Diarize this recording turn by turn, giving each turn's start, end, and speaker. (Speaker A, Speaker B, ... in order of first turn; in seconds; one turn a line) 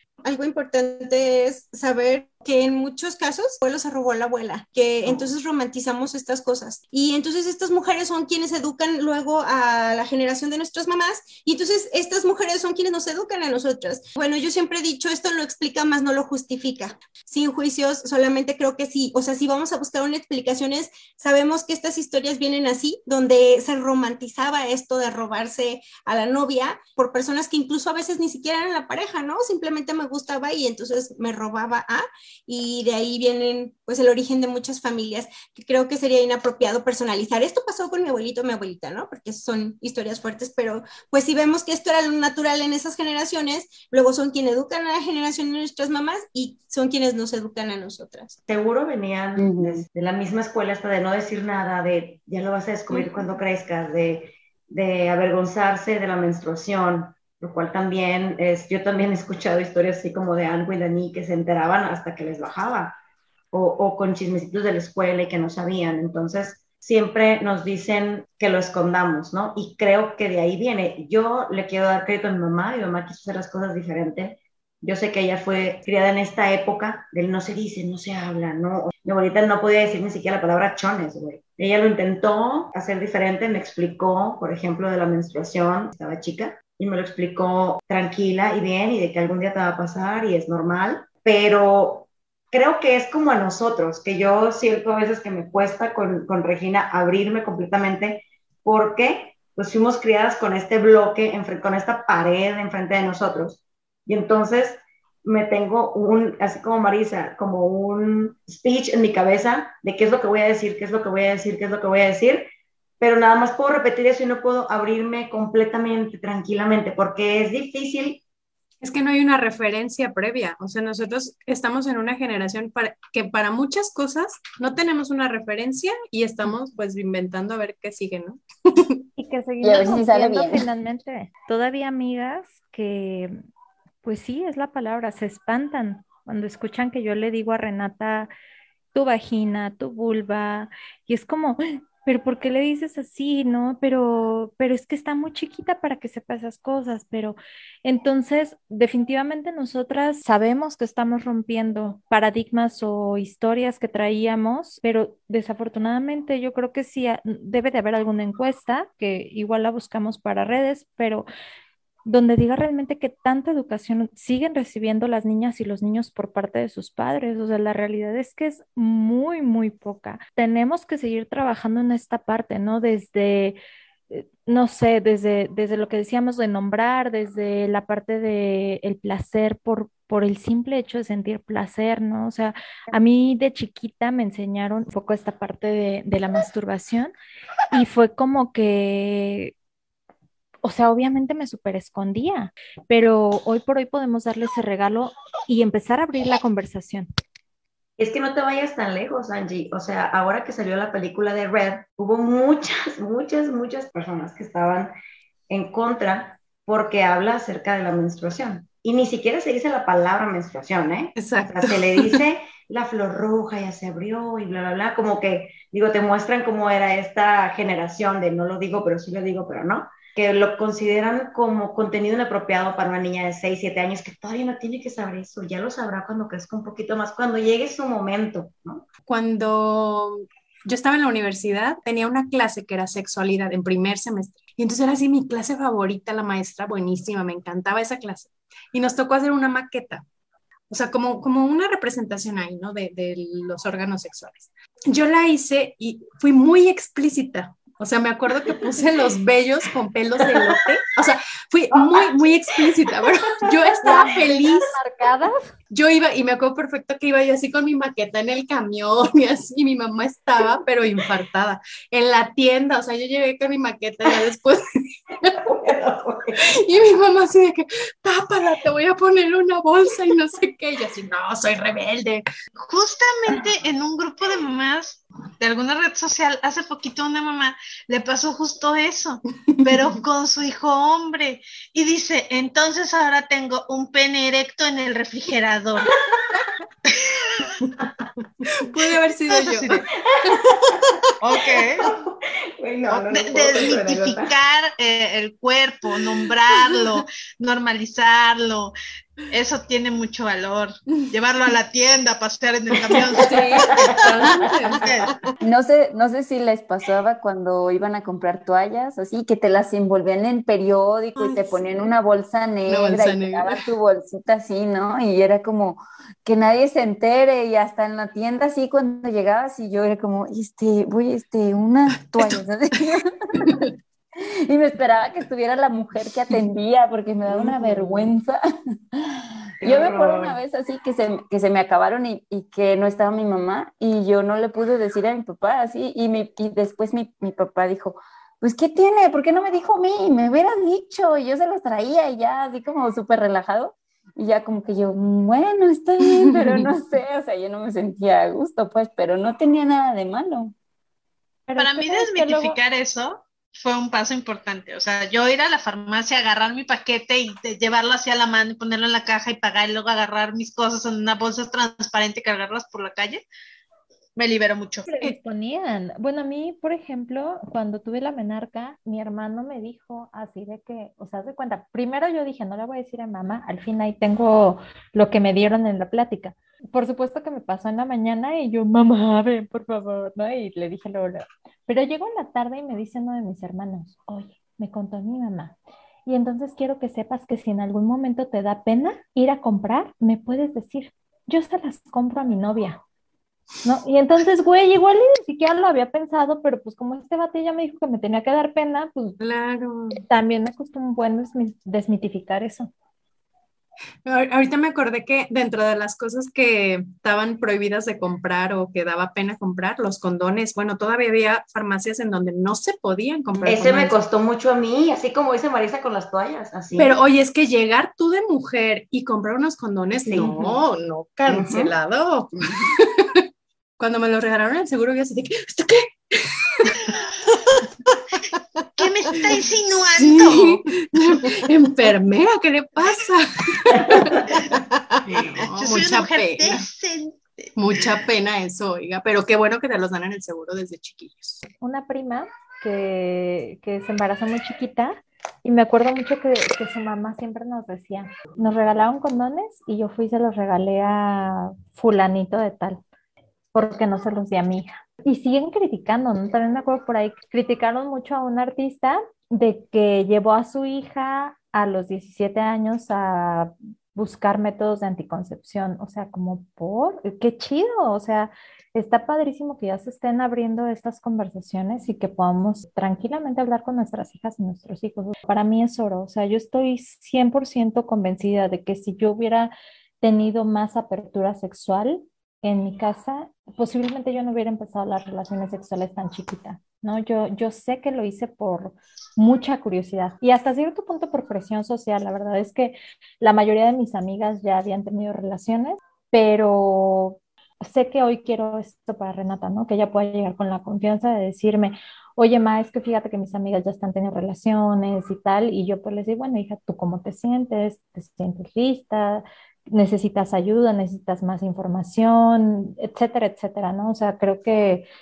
Speaker A: 0.2-48.4
Speaker B: 48.5-63.0
Speaker C: 49.4-49.9
Speaker B: 63.5-112.5
Speaker B: 113.0-118.2
Speaker D: 118.8-128.9
Speaker E: 129.2-133.3
Speaker C: 129.6-130.6
Speaker E: 134.0-138.3
Speaker E: 138.9-161.2
Speaker E: 162.1-173.6
Speaker E: 174.1-187.1
Speaker E: 187.7-189.5
Speaker E: 190.6-197.1
Speaker B: 198.0-204.9
Speaker B: 205.5-228.8
Speaker D: 211.2-212.2
Speaker D: 229.1-240.0
Speaker D: 240.7-254.8
Speaker B: 250.3-250.6
Speaker B: 251.7-252.1
Speaker B: 253.7-254.0
Speaker E: 253.8-255.5
Speaker D: 255.7-264.6
Speaker B: 265.4-266.4
Speaker D: 266.4-272.2
Speaker F: 272.6-285.9
Speaker D: 279.5-279.8
Speaker F: 286.9-287.5
Speaker D: 288.4-290.3
Speaker F: 289.3-289.8
Speaker B: 290.1-290.8
Speaker F: 291.2-291.9
Speaker B: 291.8-294.3
Speaker F: 292.9-298.7
Speaker F: 299.3-303.7
Speaker D: 303.1-305.1
Speaker B: 303.6-304.0
Speaker F: 304.8-305.1
Speaker C: 305.4-323.6
Speaker D: 311.2-311.6
Speaker D: 312.7-313.7
Speaker C: 324.2-328.4
Speaker B: 327.2-328.1
Speaker C: 328.9-350.5
Speaker B: 329.6-330.4
Speaker E: 351.5-352.6
Speaker F: 351.6-363.2
Speaker F: 364.1-364.9
Speaker E: 364.9-385.5
Speaker E: 386.1-392.8
Speaker E: 393.6-399.2
Speaker D: 399.2-400.0
Speaker E: 399.9-402.7
Speaker D: 404.0-414.0
Speaker B: 413.4-417.0
Speaker D: 416.7-423.2
Speaker B: 420.0-420.6
Speaker B: 421.2-421.7
Speaker D: 423.8-427.6
Speaker F: 428.8-430.6
Speaker D: 429.3-436.6
Speaker B: 433.7-434.0
Speaker F: 435.4-437.5
Speaker D: 437.6-441.4
Speaker E: 441.6-452.8
Speaker E: 453.5-514.9